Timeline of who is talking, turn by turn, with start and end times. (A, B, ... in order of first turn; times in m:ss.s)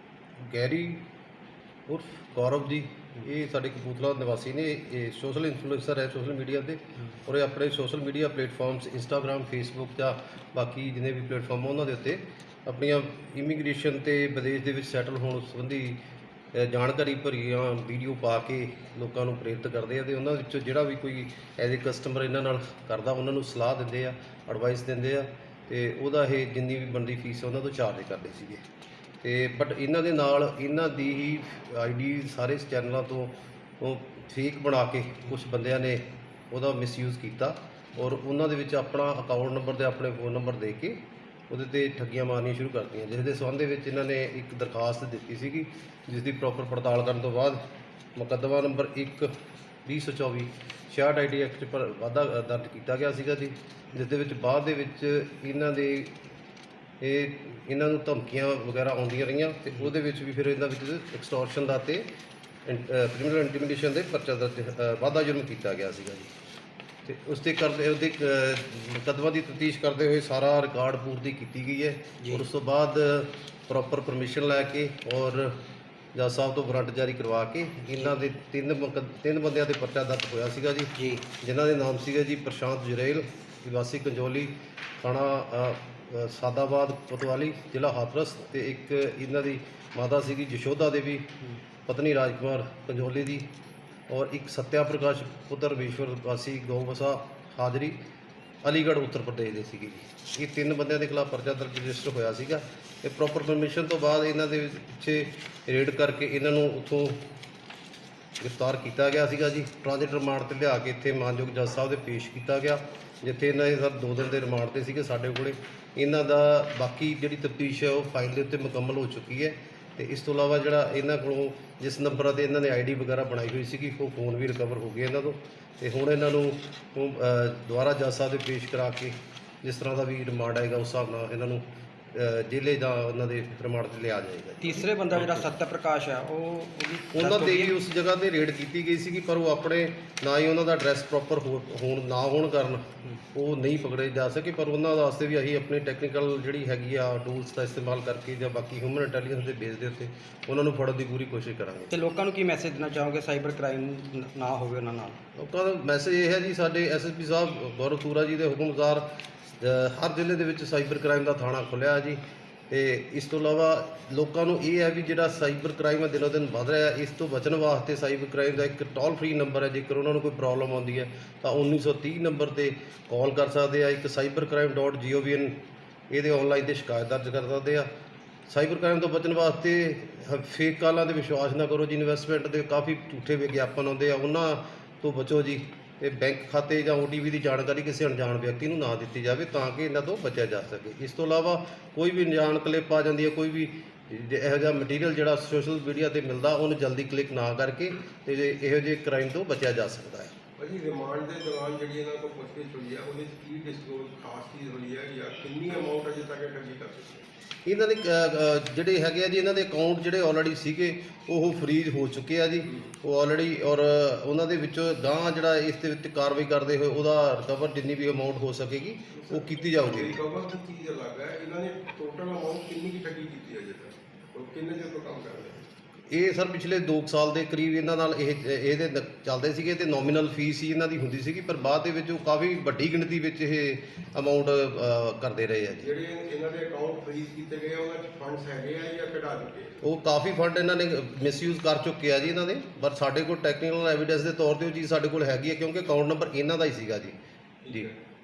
0:00.5-0:01.0 A
0:01.9-0:16.0 A
0:16.5-0:28.6 A
0:29.2-0:41.0 A
0:41.5-0:47.6 A
0:48.1-0:49.3 A
0:49.8-0:56.2 A
0:57.0-1:02.0 A
1:02.6-1:06.3 A
1:07.0-1:15.6 A
1:16.1-1:31.3 A
1:21.0-1:21.2 B
1:31.8-1:33.5 A
1:34.1-1:38.0 A
1:38.6-1:47.2 A
1:48.4-2:15.5 A
2:14.6-2:17.7 B
2:17.1-2:31.9 A
2:31.9-2:35.2 B
2:35.4-2:39.1 A
2:39.6-2:55.6 A
2:56.1-2:57.9 A
2:58.5-3:20.3 A
3:20.6-3:27.3 C
3:27.6-3:40.2 A
3:39.1-3:45.6 C
3:46.1-3:55.9 A
3:55.8-3:59.8 C
3:59.8-4:07.1 A
4:07.6-4:07.9 C